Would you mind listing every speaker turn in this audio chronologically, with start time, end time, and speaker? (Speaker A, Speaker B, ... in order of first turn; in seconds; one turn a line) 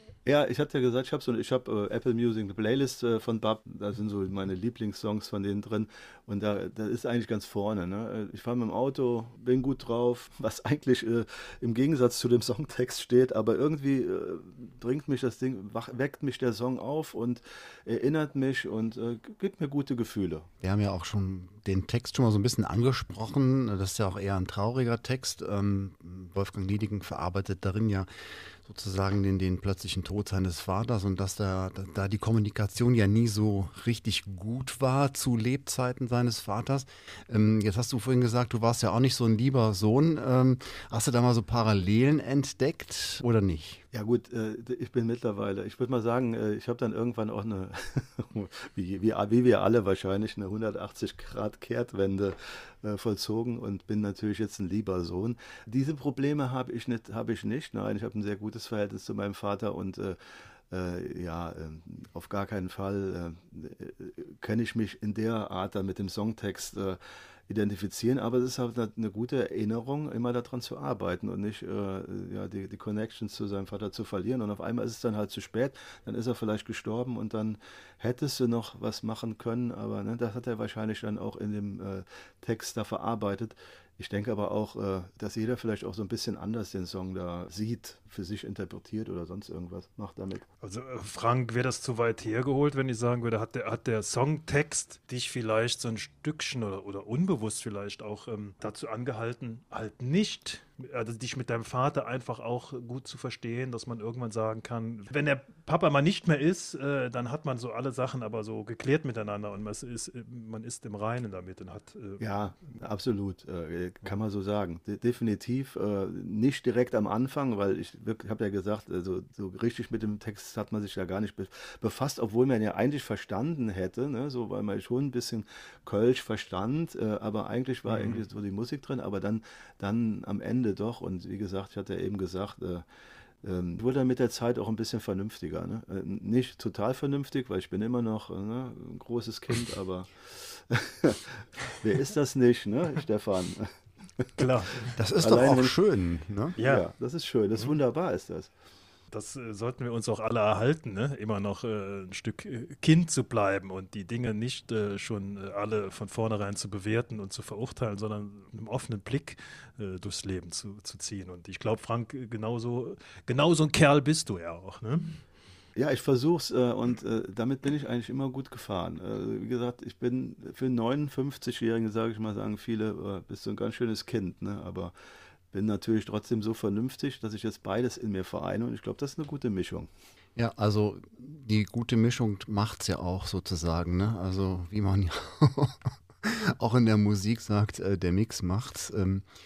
Speaker A: 0.3-20.5
Speaker B: 20.6-28.1
Speaker B: 28.6-43.8
Speaker A: 43.9-60.2
Speaker A: 60.7-90.5
Speaker C: 90.6-112.2
Speaker A: 112.2-132.8
Speaker C: 127.9-128.2
Speaker A: 133.4-144.4
Speaker C: 144.4-145.0
Speaker B: 145.0-146.6
Speaker A: 145.2-145.7
Speaker A: 146.6-148.5
Speaker C: 146.6-146.8
Speaker C: 149.1-165.2
Speaker A: 165.8-174.9
Speaker A: 175.5-179.9
Speaker B: 180.4-189.3